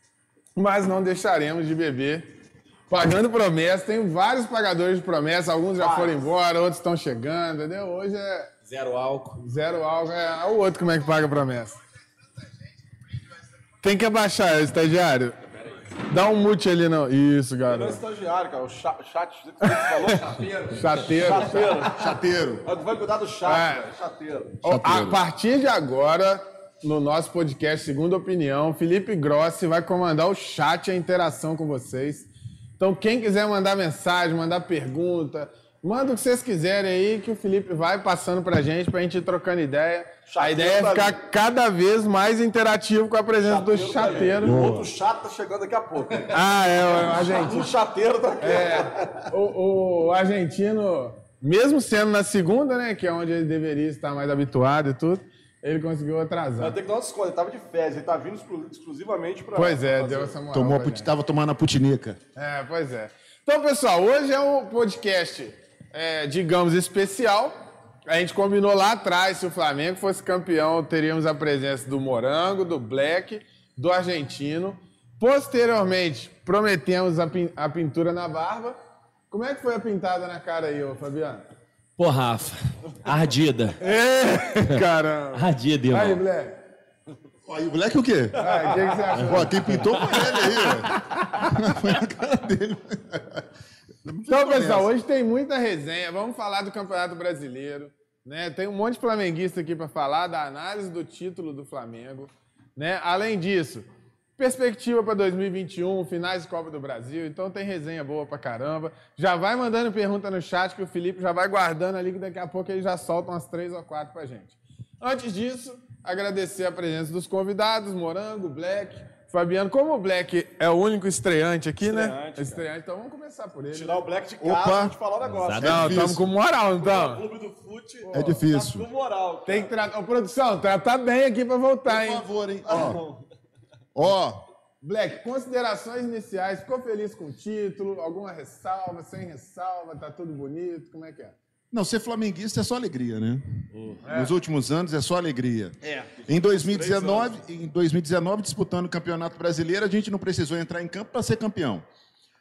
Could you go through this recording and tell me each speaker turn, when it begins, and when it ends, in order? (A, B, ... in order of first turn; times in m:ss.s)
0:00.6-0:02.3 A
0:02.9-0:08.5 A
0:05.8-0:06.3 B
0:08.6-0:09.4 C
0:09.4-0:11.8 A
0:13.8-0:15.4 A
0:16.0-0:18.0 A
0:17.7-0:24.6 B
0:19.7-0:20.0 A
0:20.6-0:22.0 A
0:21.8-0:22.7 D
0:23.4-0:23.9 A
0:24.6-0:44.8 A
0:24.6-0:25.2 D
0:40.3-0:41.2 B
0:43.4-0:46.4 B
0:44.4-0:44.9 D
0:46.3-0:47.7 A
0:46.9-0:49.3 B
0:48.4-0:56.8 A
0:56.6-1:00.4 B
0:59.6-1:01.1 A
1:00.5-1:02.2 D
1:02.4-1:18.8 A
1:19.3-1:21.5 A
1:22.0-1:23.8 C
1:23.8-1:26.6 A
1:25.3-1:26.2 C
1:27.5-1:28.6 D
1:28.4-1:31.6 A
1:28.4-1:29.0 B
1:29.2-1:33.5 D
1:34.0-1:34.9 D
1:34.3-2:04.0 A
2:01.8-2:02.7 B
2:03.7-2:06.1 B
2:04.4-2:05.0 D
2:05.2-2:06.0 C
2:05.6-2:06.2 D
2:05.6-2:07.2 A
2:06.8-2:09.7 B
2:08.0-2:08.5 A
2:08.1-2:08.9 D
2:09.5-2:12.2 A
2:11.8-2:13.0 D
2:12.7-2:13.3 B
2:14.0-2:14.4 D
2:14.8-2:21.4 A
2:21.7-2:31.8 D
2:23.7-2:24.0 C
2:24.0-2:24.4 A
2:26.2-2:27.4 B